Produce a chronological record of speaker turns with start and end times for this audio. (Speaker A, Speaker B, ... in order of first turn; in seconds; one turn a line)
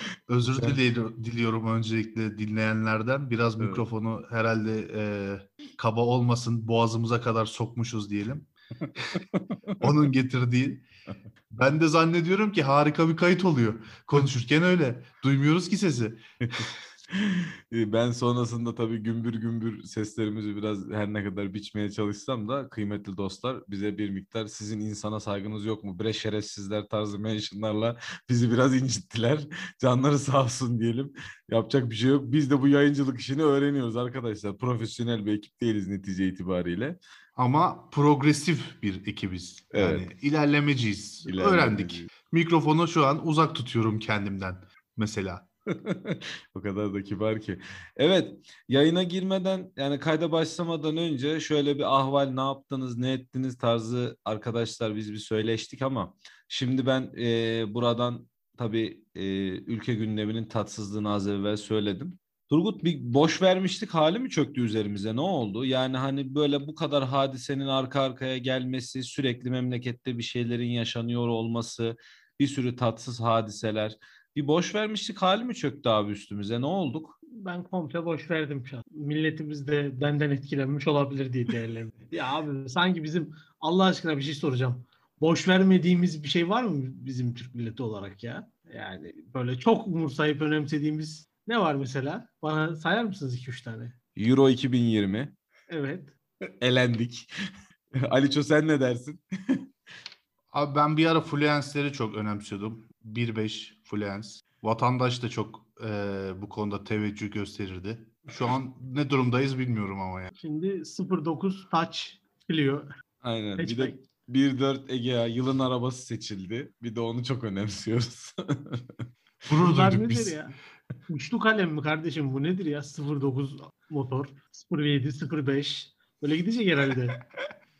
Speaker A: 0.3-9.2
Speaker B: 9.1-9.9
Speaker A: 9.8-10.8
Speaker A: 11.5-16.6
Speaker B: 16.4-37.0
Speaker A: 37.4-45.5
Speaker B: 39.7-40.1
Speaker B: 41.2-42.1
Speaker B: 45.7-77.2
Speaker C: 77.3-93.9
Speaker B: 94.2-95.3
Speaker C: 95.7-96.1
Speaker B: 96.6-97.3
Speaker B: 98.0-99.6
Speaker A: 100.5-110.3
Speaker C: 110.3-112.9
Speaker B: 113.2-118.8
Speaker C: 113.6-114.0
Speaker A: 119.5-120.4
Speaker C: 119.6-120.5
Speaker C: 121.1-127.2